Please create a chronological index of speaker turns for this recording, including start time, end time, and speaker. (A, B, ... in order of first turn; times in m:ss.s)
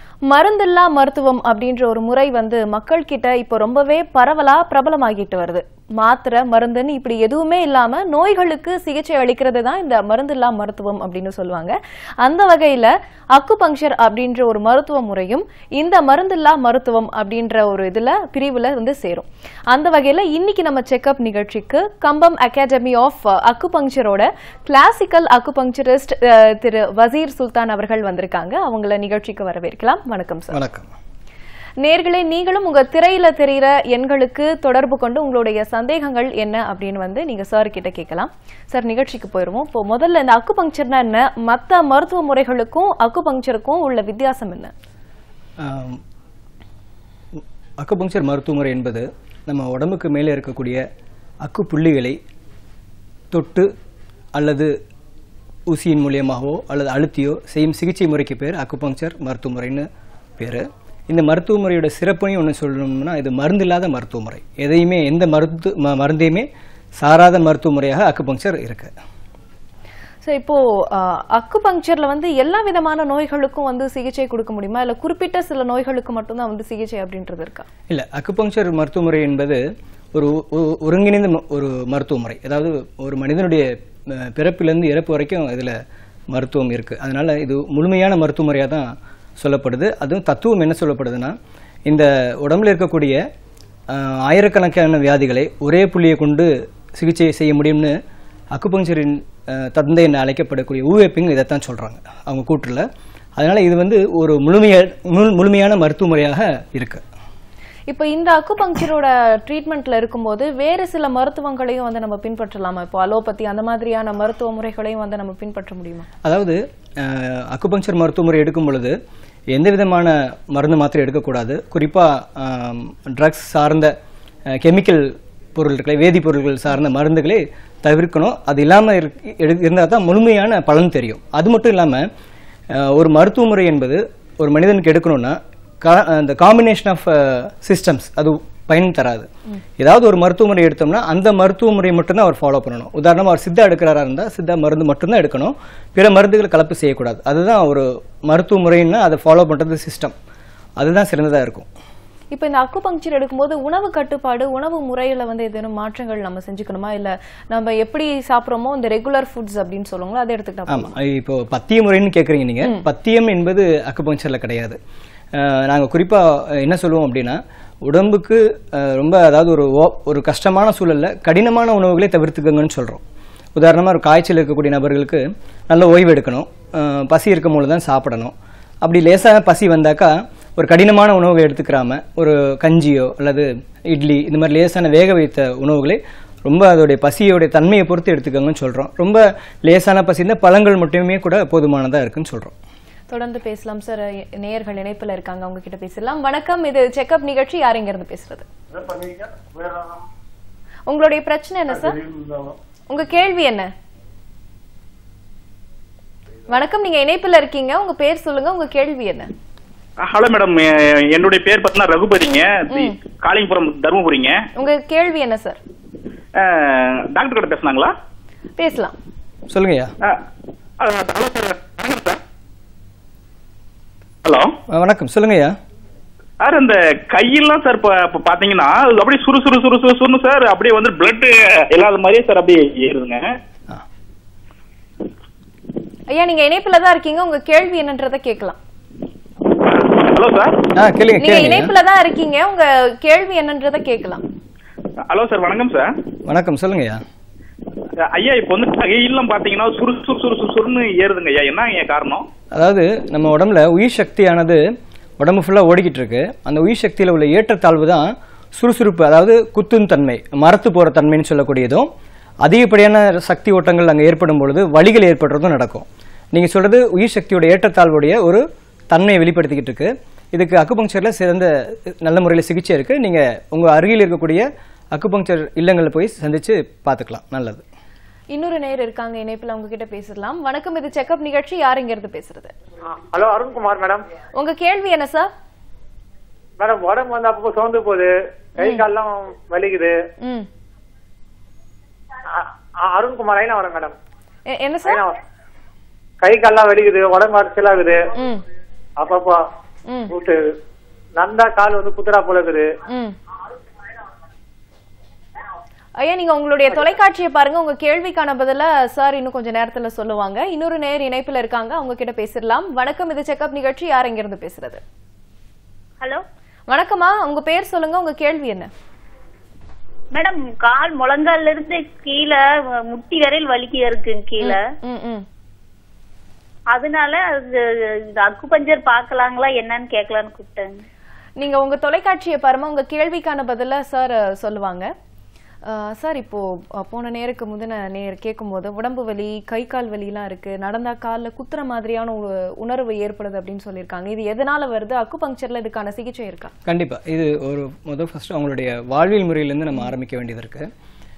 0:00.3-0:30.6 A
0:30.5-0:30.9 B
0:31.8-0:44.7 A
0:45.6-0:46.0 B
0:47.8-0:50.8 B
0:51.4-0:52.2 B
0:53.3-0:53.7 B
0:54.4-0:54.7 B
0:55.7-0:59.9 B
1:00.4-1:06.5 B
1:07.0-1:08.9 B
1:10.2-1:17.7 A
1:17.9-1:19.6 B
1:20.2-1:25.8 B
1:26.3-1:31.4 B
1:31.9-1:33.2 B
1:33.9-1:37.9 B
1:38.5-1:42.8 B
1:43.4-1:47.0 B
1:47.9-1:56.1 A
1:56.2-1:59.0 B
1:59.5-2:03.9 B
2:04.5-2:12.1 B
2:12.7-2:19.3 B
2:19.8-2:30.1 B
2:30.8-2:31.7 B
2:32.3-2:40.9 A
2:40.7-2:44.8 B
2:45.4-2:53.0 B
2:53.6-3:12.6 B
3:13.1-3:18.5 A
3:20.9-3:22.0 A
3:22.9-3:23.7 A
3:26.5-3:29.3 A
3:30.0-3:34.4 C
3:34.6-3:35.6 A
3:36.4-3:37.9 C
3:38.6-3:39.0 A
3:39.5-3:39.9 B
3:40.8-3:42.2 C
3:44.2-3:44.5 C
3:44.7-3:45.6 B
3:46.4-3:53.2 C
3:56.1-3:58.6 A
3:59.6-4:00.6 C
4:00.8-4:01.7 B
4:01.2-4:04.2 A
4:05.1-4:05.9 C
4:06.3-4:07.0 B
4:08.0-4:12.3 C
4:12.5-4:14.6 B
4:15.2-4:21.9 B
4:22.4-4:37.6 B
4:38.3-4:42.5 A
4:43.1-4:44.0 D
4:44.4-4:45.3 A
4:46.6-4:50.0 D
4:50.2-4:50.5 A
4:52.3-4:54.0 D
4:54.5-4:55.0 A
4:56.2-4:58.0 D
4:58.2-4:58.4 A
4:59.0-4:59.4 D
5:00.1-5:00.5 D
5:01.2-5:02.7 D
5:02.9-5:03.2 A
5:06.0-5:14.8 A
5:16.7-5:18.7 A
5:20.1-5:24.6 E
5:24.4-5:25.2 A
5:26.7-5:27.6 E
5:28.2-5:30.8 E
5:31.4-5:34.9 A
5:35.7-5:46.5 A
5:46.7-5:50.7 B